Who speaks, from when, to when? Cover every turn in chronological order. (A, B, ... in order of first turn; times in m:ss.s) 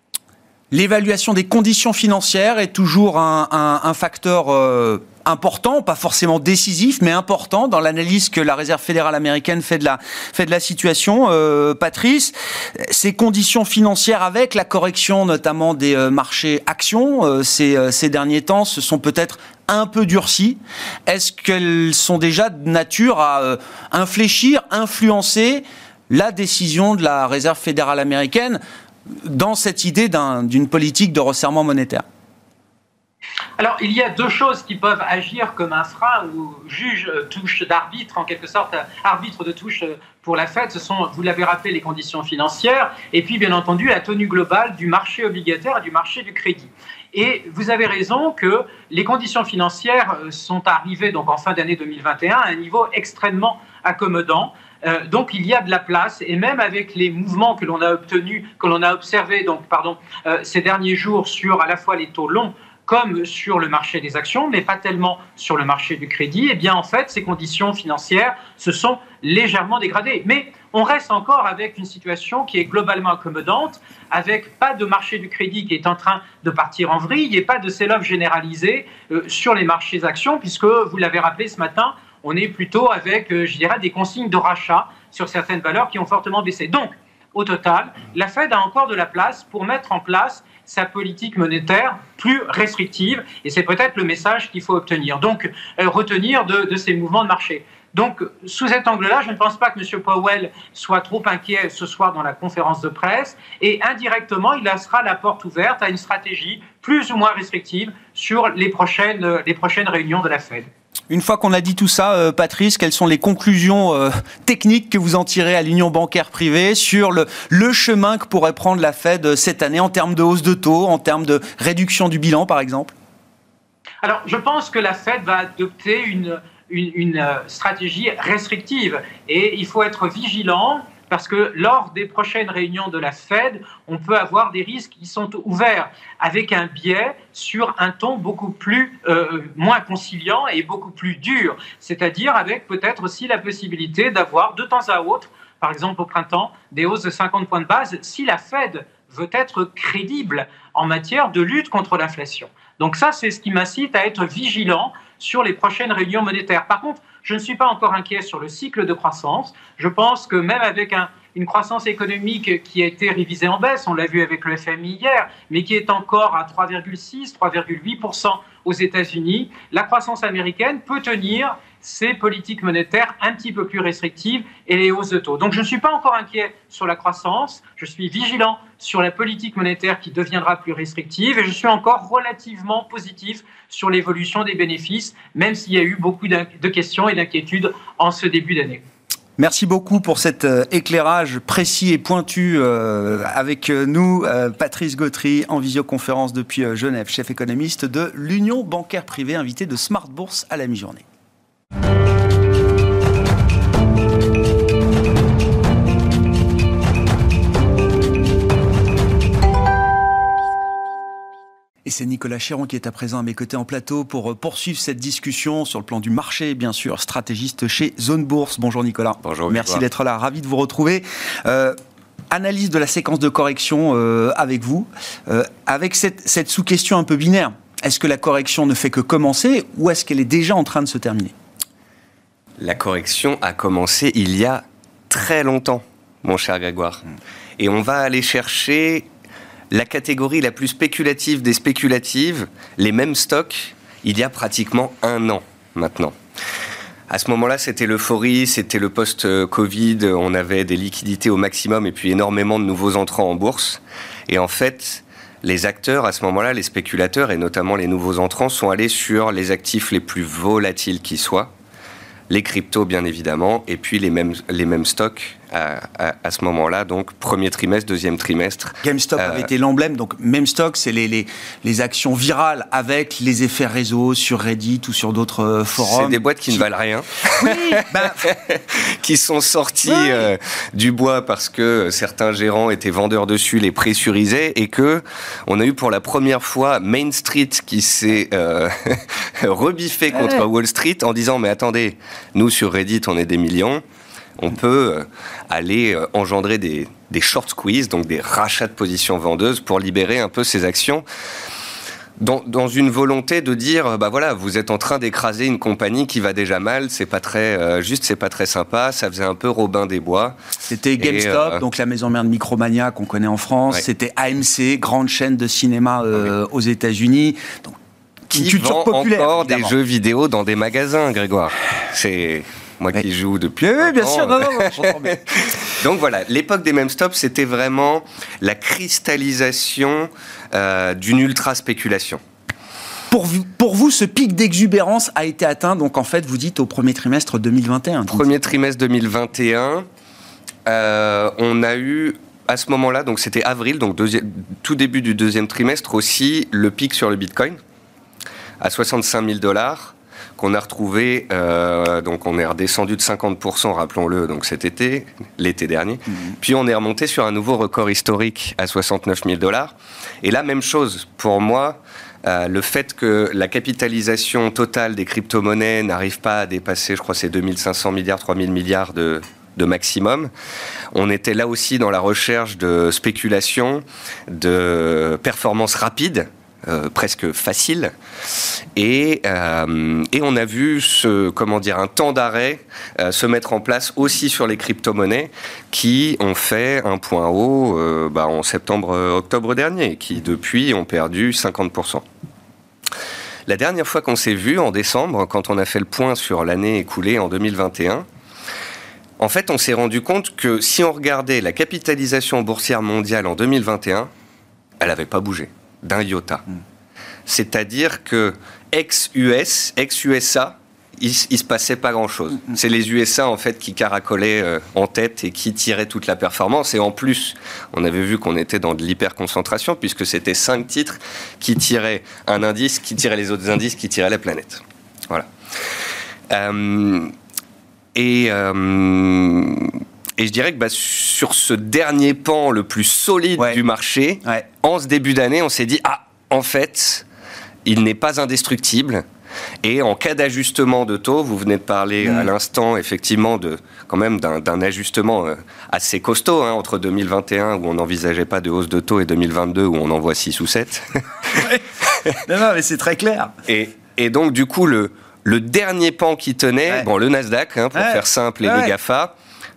0:00.7-0:28.6 A
0:29.1-0:32.0 A
0:33.6-1:50.7 B
1:51.1-2:02.9 A
2:04.0-3:08.8 B
3:09.4-3:21.0 A
3:31.8-3:41.8 A
3:39.2-3:39.8 C
3:42.3-3:51.3 A
3:52.6-3:57.0 C
3:57.6-3:59.1 C
3:59.7-4:06.2 C
4:07.1-4:21.5 C
4:22.3-4:29.5 C
4:28.8-4:36.6 A
4:35.8-4:53.8 C
4:37.4-4:38.3 A
4:39.9-4:40.3 A
4:50.1-4:50.4 A
4:54.4-5:01.0 C
5:02.2-5:10.4 C
5:10.7-5:17.8 A
5:11.0-5:11.6 C
5:18.3-5:19.7 A
5:18.3-5:32.2 C
5:23.6-5:25.5 A
5:33.1-5:38.3 A
5:38.1-5:39.9 C
5:40.7-5:47.6 C
5:48.6-6:10.3 C
6:10.9-6:17.9 C
6:18.8-6:32.0 C
6:33.5-6:38.1 C
6:39.2-6:44.1 C
6:44.8-6:46.4 C
6:47.3-7:05.3 C
7:06.3-7:07.1 C
7:08.0-7:17.0 C
7:17.6-7:19.0 C
7:19.6-7:31.5 C
7:22.0-7:22.3 A
7:31.4-7:31.6 A
7:32.2-7:33.3 A
7:33.5-7:39.1 C
7:37.7-7:38.7 A